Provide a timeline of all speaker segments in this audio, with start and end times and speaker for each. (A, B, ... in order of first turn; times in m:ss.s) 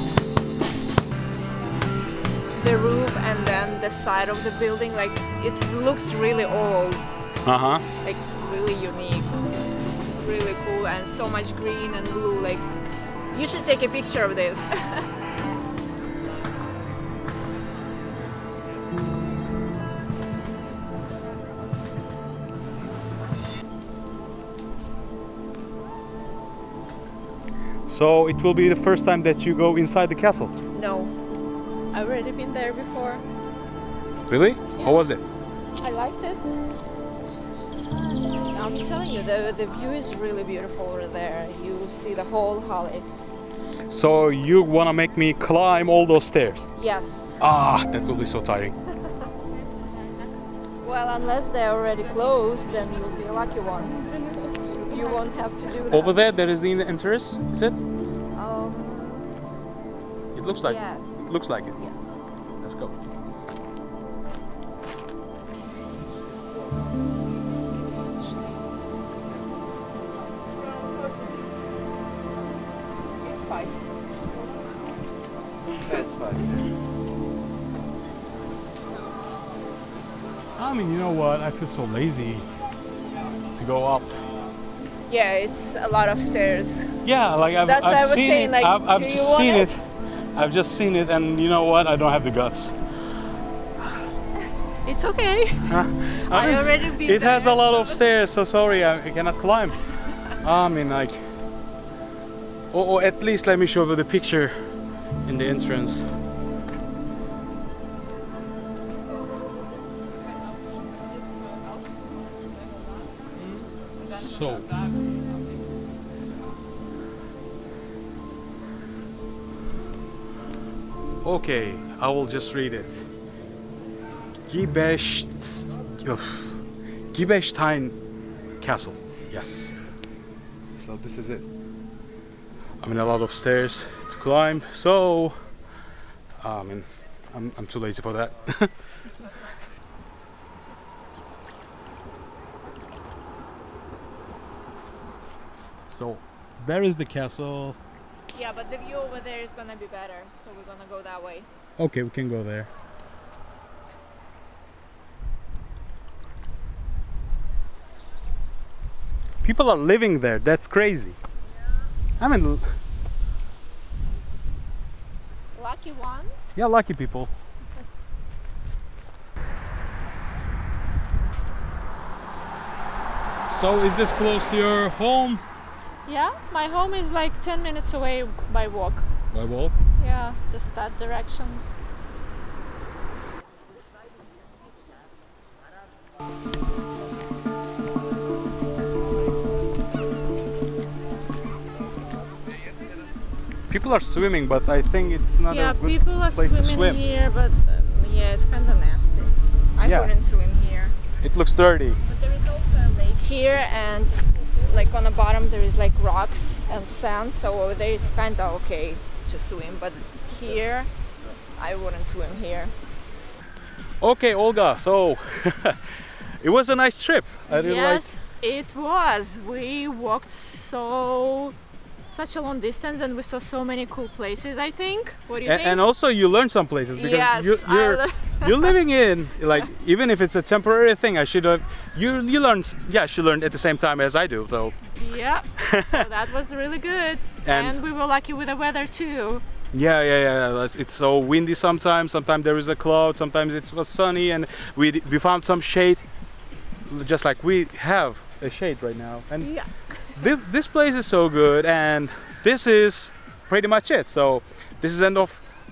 0:02.5-0:07.1 A
0:07.4-0:07.8 B
0:08.0-0:09.3 A
0:10.1-0:12.6 A
0:13.3-0:15.0 A
0:27.9-0:30.5 B
0:30.7-0:31.1 A
0:31.9-0:33.2 A
0:34.3-0:35.2 B
0:35.8-0:36.5 A
0:38.4-0:43.0 A
0:43.9-0:46.7 B
0:46.8-0:47.4 A
0:47.4-0:48.7 B
0:50.8-0:56.2 A
0:55.9-0:57.8 B
0:58.3-0:59.4 A
1:00.3-1:01.7 B
1:00.6-1:02.3 A
1:02.6-1:03.0 B
1:07.8-1:08.6 A
1:10.7-1:11.3 A
1:13.2-1:13.8 A
1:15.9-1:16.4 A
1:20.6-1:22.5 B
1:23.6-1:24.2 B
1:25.1-1:26.9 A
1:27.0-1:29.8 B
1:27.6-1:29.7 A
1:30.4-1:32.8 B
1:34.8-1:38.0 A
1:35.7-1:39.8 B
1:40.4-1:41.2 B
1:42.7-1:44.6 B
1:45.2-1:46.1 B
1:53.4-1:54.7 B
2:01.2-2:03.0 B
2:04.5-2:06.6 B
2:07.1-2:07.9 B
2:08.6-2:09.8 B
2:10.8-2:11.4 B
2:12.8-2:15.4 B
2:16.4-2:18.7 B
2:25.9-2:27.8 B
2:28.3-2:31.5 A
2:31.8-2:32.7 B
2:39.4-2:41.2 B
2:42.2-2:42.6 B
2:45.5-2:46.5 A
2:46.5-2:47.3 B
2:53.5-2:55.4 B
2:56.0-2:59.1 A
2:59.3-2:59.7 B
3:00.0-3:01.6 A
3:13.7-3:17.0 B
3:15.5-3:21.0 A
3:19.8-3:20.1 B
3:21.2-3:22.0 B
3:22.0-3:30.9 A
3:31.6-3:32.7 A
3:34.0-3:38.1 B
3:37.5-3:41.6 A
3:42.1-3:45.8 A
3:45.4-3:54.8 B
3:46.9-3:48.8 A
3:54.9-3:59.4 A
3:55.6-3:56.0 B
3:57.4-3:57.8 B
3:59.7-4:06.0 B
4:06.9-4:09.5 B
4:09.4-4:10.3 A
4:10.2-4:15.4 B